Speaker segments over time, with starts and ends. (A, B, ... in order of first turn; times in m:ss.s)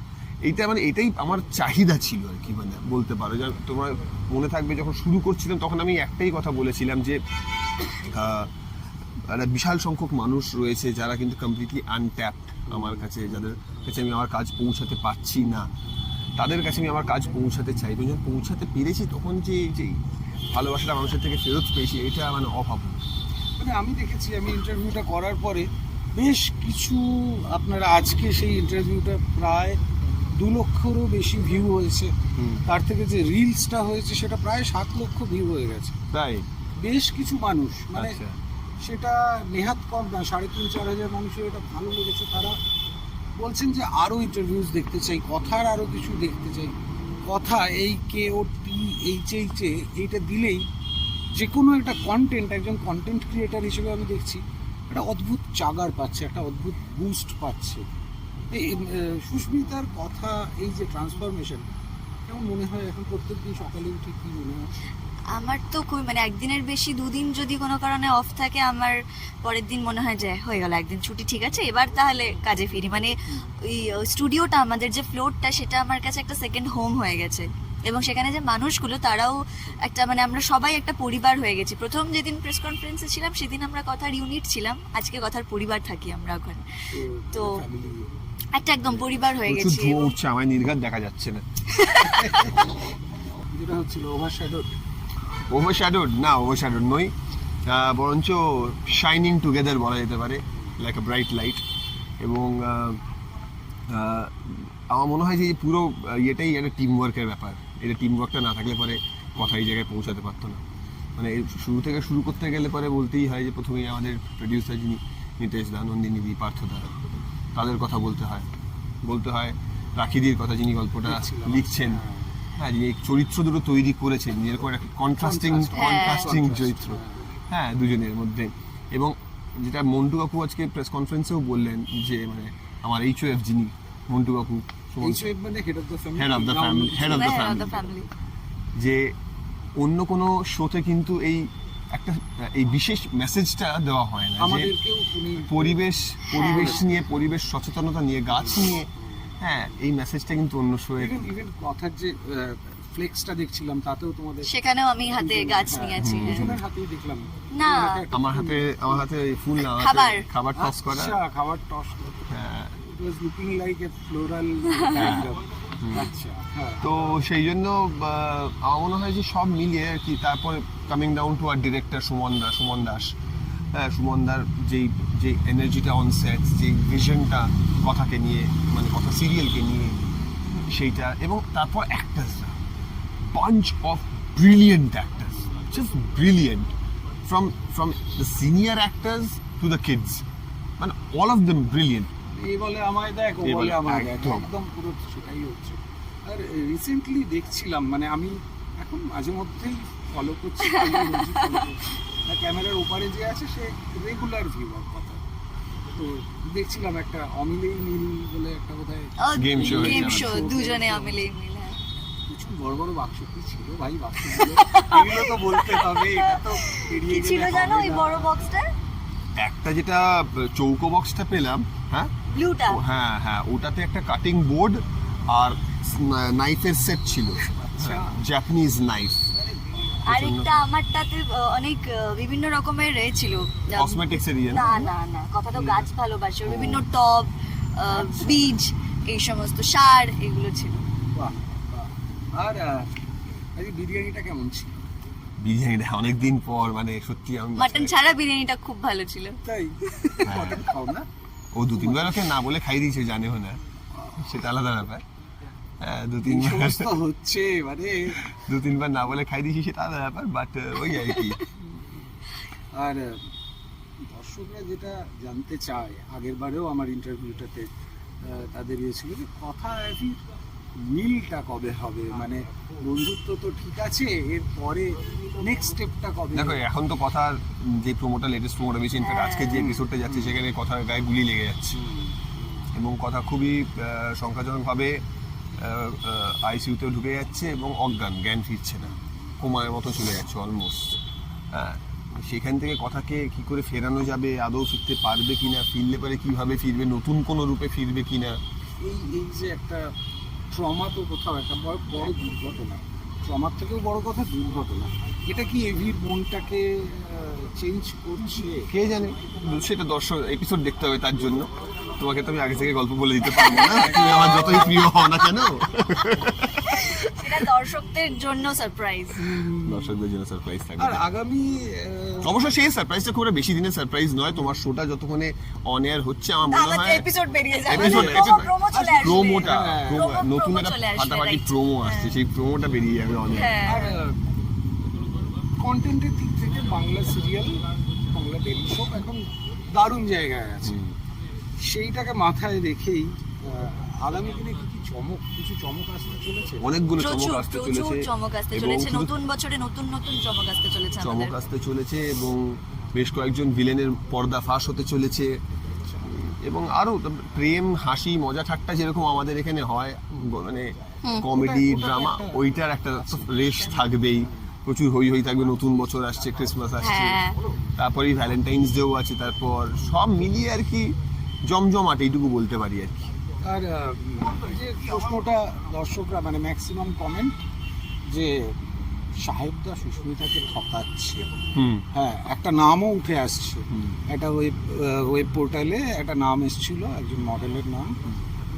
0:00.4-0:07.2 A
0:07.9-0:08.5 A
0:09.2-0:15.7 A
0:16.4-0:20.0 A
0:20.5-0:23.0 A
0:23.6-0:29.8 B
0:30.4-0:32.1 B
0:32.4-0:32.6 A
0:32.6-0:36.0 B
0:36.1-0:36.4 A
0:36.8-0:38.2 B
0:37.9-0:38.4 A
0:38.8-0:42.5 B
0:43.4-0:50.6 B
0:51.3-0:57.8 B
0:58.5-1:01.6 B
1:02.2-1:04.7 B
1:05.3-1:26.6 C
1:26.9-1:28.1 B
1:27.3-1:27.6 C
1:28.5-1:30.1 C
1:29.4-1:31.4 A
1:31.7-1:32.5 C
1:32.0-1:32.5 B
1:33.5-1:34.7 B
1:35.5-1:37.1 A
1:37.6-1:41.6 A
1:42.2-1:43.0 A
1:43.9-1:50.6 A
1:51.2-1:57.0 A
1:57.5-1:58.5 A
1:59.0-2:02.0 A
2:01.0-2:02.4 B
2:02.6-2:15.3 A
2:05.2-2:07.3 B
2:05.7-2:06.4 C
2:15.0-2:18.1 B
2:16.2-2:17.7 A
2:17.0-2:18.1 C
2:18.8-2:19.1 A
2:19.8-2:24.7 A
2:24.4-2:25.8 B
2:25.4-2:28.9 A
2:26.3-2:26.8 C
2:26.4-2:26.8 B
2:29.4-2:31.3 A
2:31.0-2:34.5 B
2:34.4-2:36.5 C
2:35.1-2:39.0 B
2:36.0-2:36.6 A
2:37.5-2:38.0 C
2:38.1-2:41.2 A
2:39.6-2:40.2 C
2:40.5-2:47.2 B
2:42.3-2:42.8 A
2:44.9-2:45.2 A
2:45.8-2:46.1 A
2:46.8-2:53.2 A
2:53.7-3:00.0 A
3:00.6-3:02.6 A
3:03.2-3:06.7 A
3:07.2-3:10.2 A
3:10.8-3:12.1 A
3:12.3-3:25.2 B
3:13.4-3:14.5 A
3:20.7-3:21.6 C
3:25.9-3:31.2 B
3:29.2-3:31.8 C
3:29.3-3:30.3 A
3:32.3-3:38.4 B
3:34.2-3:38.6 C
3:39.4-3:42.1 A
3:42.3-3:42.8 C
3:42.7-3:49.3 A
3:47.7-3:48.2 B
3:50.1-4:00.8 C
3:50.1-3:50.7 A
3:53.7-3:54.9 A
3:56.4-3:56.8 A
3:57.9-3:58.5 B
4:01.1-4:02.9 B
4:03.6-4:04.8 B
4:05.4-4:08.0 A
4:07.6-4:09.4 C
4:09.4-4:11.1 B
4:10.0-4:10.4 C
4:10.2-4:10.7 A
4:11.5-4:13.6 A
4:11.7-4:12.3 B
4:14.2-4:15.0 A
4:15.8-4:16.9 A
4:16.2-4:18.3 B
4:18.2-4:21.4 A
4:22.7-4:23.2 B
4:24.0-4:27.7 B
4:28.2-4:30.2 B
4:30.8-4:36.6 B
4:36.3-4:41.8 A
4:39.0-4:39.7 C
4:39.5-4:40.4 B
4:42.0-4:42.3 B
4:42.7-4:45.0 A
4:45.6-4:51.0 A
4:51.5-4:58.4 A
4:58.8-4:59.8 B
5:00.5-5:09.0 B
5:08.7-5:17.4 A
5:13.6-5:14.9 B
5:16.6-5:19.2 C
5:19.2-5:20.0 B
5:19.5-5:21.0 A
5:20.8-5:22.5 B
5:22.2-5:27.0 A
5:26.4-5:32.1 C
5:27.7-5:33.7 A
5:27.7-5:30.0 B
5:33.3-5:34.0 C
5:33.6-5:34.2 B
5:35.6-5:40.8 B
5:40.6-5:40.9 A
5:41.6-5:46.7 B
5:46.6-5:49.1 A
5:47.0-5:51.3 C
5:51.0-5:55.3 A
5:56.0-6:07.2 A
6:01.3-6:03.9 B
6:06.8-6:07.4 C
6:07.8-6:10.9 A
6:11.5-6:13.1 A
6:13.4-6:17.4 B
6:18.1-6:18.6 B
6:19.2-6:21.2 B
6:21.5-6:21.8 A
6:21.9-6:27.9 B